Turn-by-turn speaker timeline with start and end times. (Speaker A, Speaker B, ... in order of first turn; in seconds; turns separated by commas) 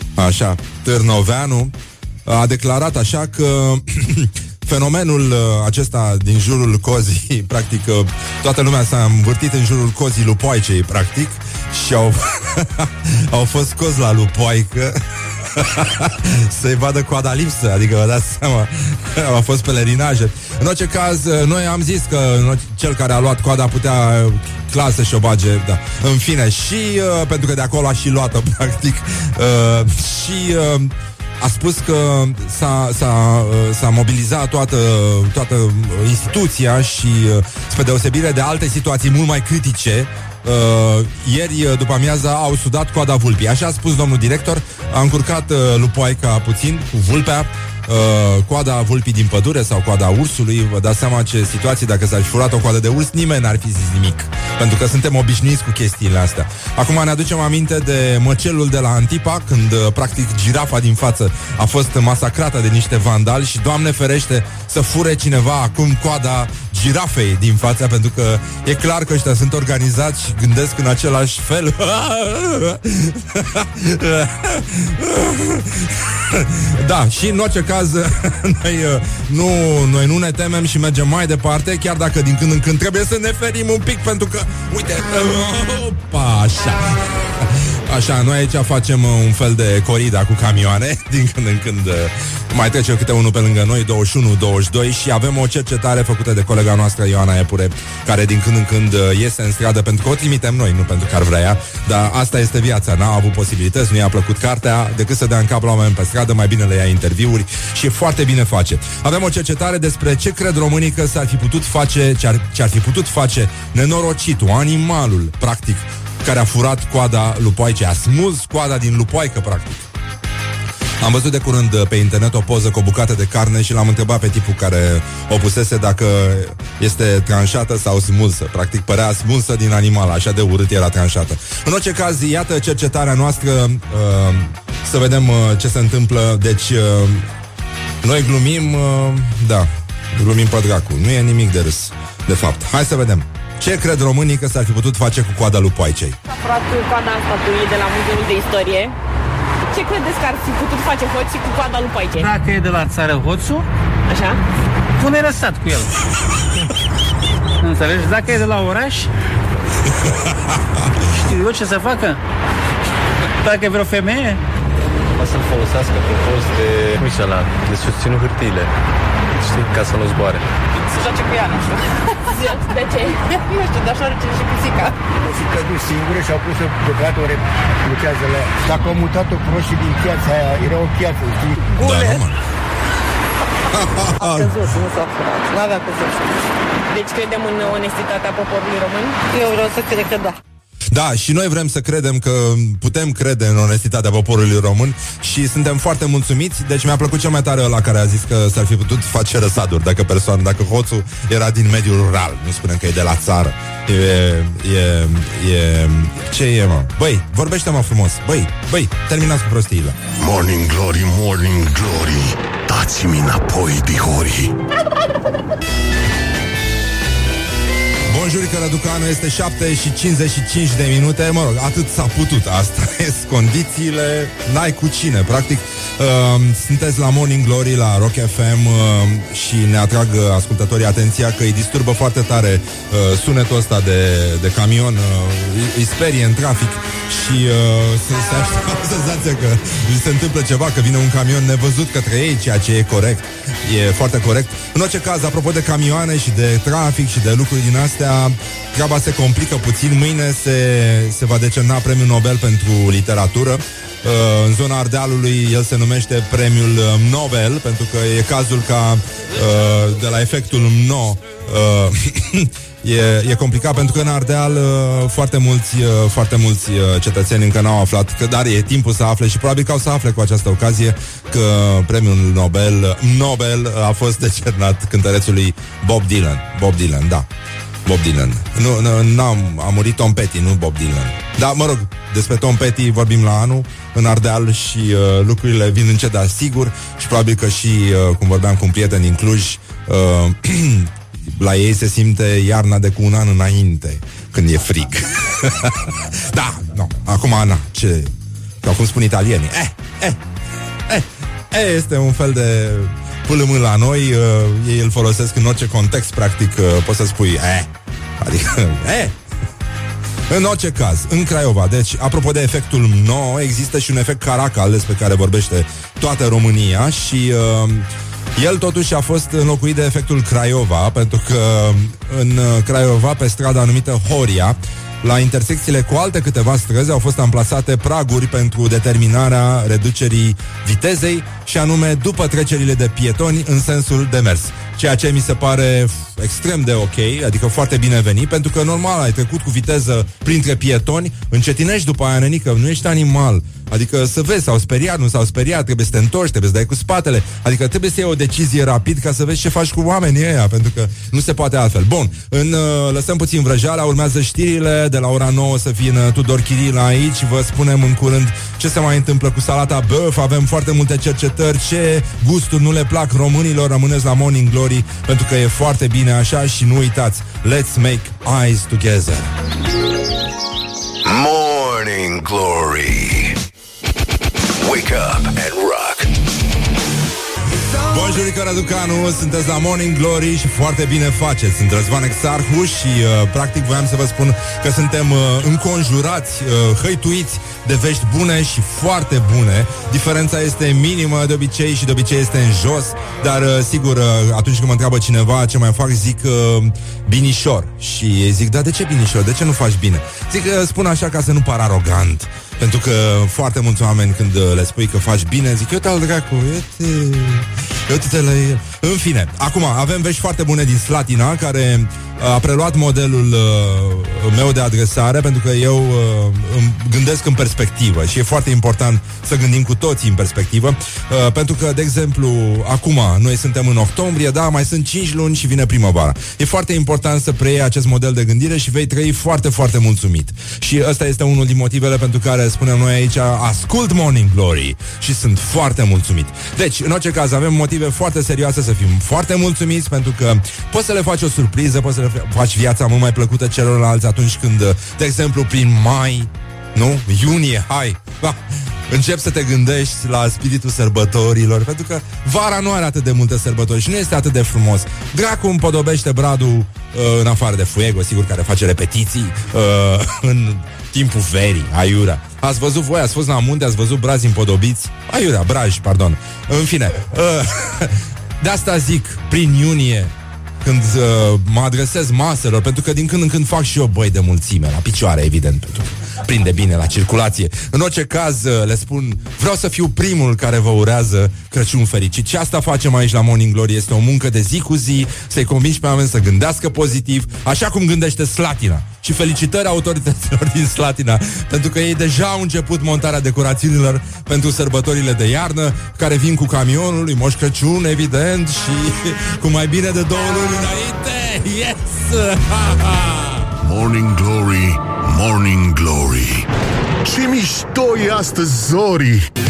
Speaker A: 0.2-1.7, Speaker A: 2.3-15.0, Speaker A: 15.6-119.9, Speaker A: 121.0-137.3, Speaker A: 138.0-146.2, Speaker B: 146.3-148.9, Speaker B: 149.7-152.3, Speaker C: 152.2-153.7, Speaker B: 154.1-154.4, Speaker C: 155.0-156.0, Speaker C: 157.6-159.1, Speaker C: 161.0-162.2, Speaker C: 163.4-164.4, Speaker D: 165.2-168.7, Speaker C: 167.0-167.5, Speaker D: 169.4-170.4, Speaker E: 170.9-171.7, Speaker B: 172.3-173.3, Speaker E: 173.3-174.9, Speaker F: 175.2-181.7, Speaker A: 181.8-182.4, Speaker A: 183.7-184.6, Speaker E: 184.2-186.2, Speaker B: 186.9-189.3, Speaker E: 189.3-190.4, Speaker A: 190.9-210.0, Speaker G: 210.2-214.5, Speaker A: 218.1-277.3, Speaker A: 277.9-298.1, Speaker A: 298.6-300.2, Speaker A: 300.9-307.7, Speaker A: 308.2-309.1, Speaker A: 310.3-369.3, Speaker H: 371.0-373.4, Speaker H: 374.6-376.1, Speaker A: 377.7-470.1, Speaker A: 470.6-503.5, Speaker G: 503.6-506.5, Speaker G: 507.1-509.3